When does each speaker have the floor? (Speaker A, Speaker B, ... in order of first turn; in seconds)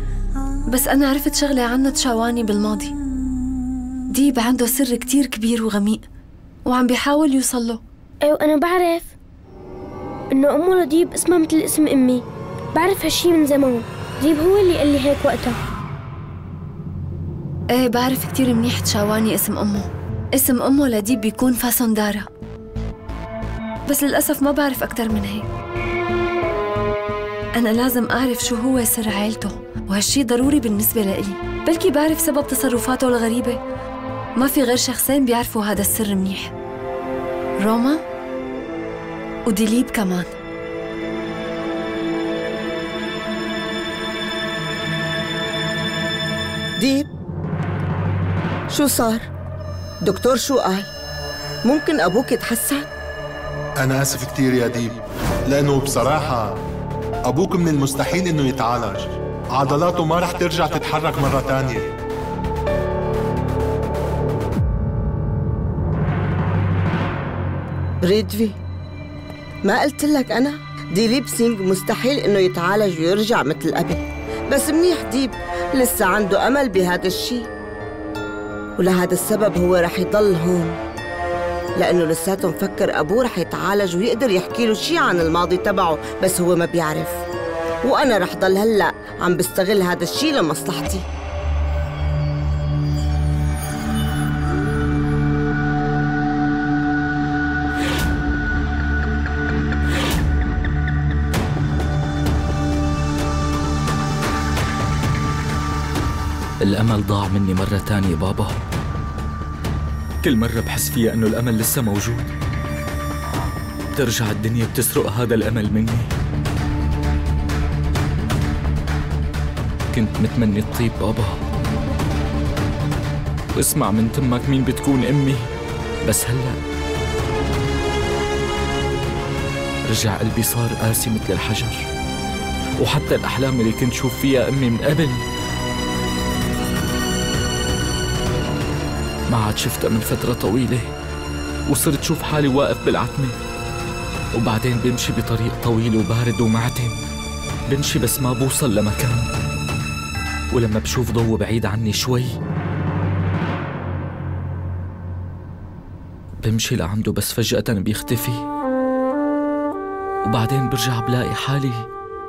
Speaker A: 0.7-2.9, 4.1-6.0, 6.7-7.8, 17.7-22.3, 23.9-25.5, 27.6-33.6, 34.4-36.5, 37.6-38.0, 39.5-40.3
Speaker B: 8.2-9.1, 10.3-12.2, 12.8-15.6
Speaker C: 46.8-47.1, 48.7-49.3, 50.0-50.9, 51.6-52.9, 68.0-68.6, 69.6-77.5, 78.8-80.8, 81.8-87.2, 87.8-91.1
Speaker D: 53.8-56.6, 57.3-61.9
Speaker E: 106.6-108.6, 110.2-112.3, 113.9-116.1, 119.9-121.4, 123.5-125.5, 126.0-126.6, 129.9-131.9, 132.8-135.2, 139.3-140.9, 141.7-143.4, 144.3-147.0, 147.7-149.3, 150.5-152.4, 156.4-158.4, 160.2-161.9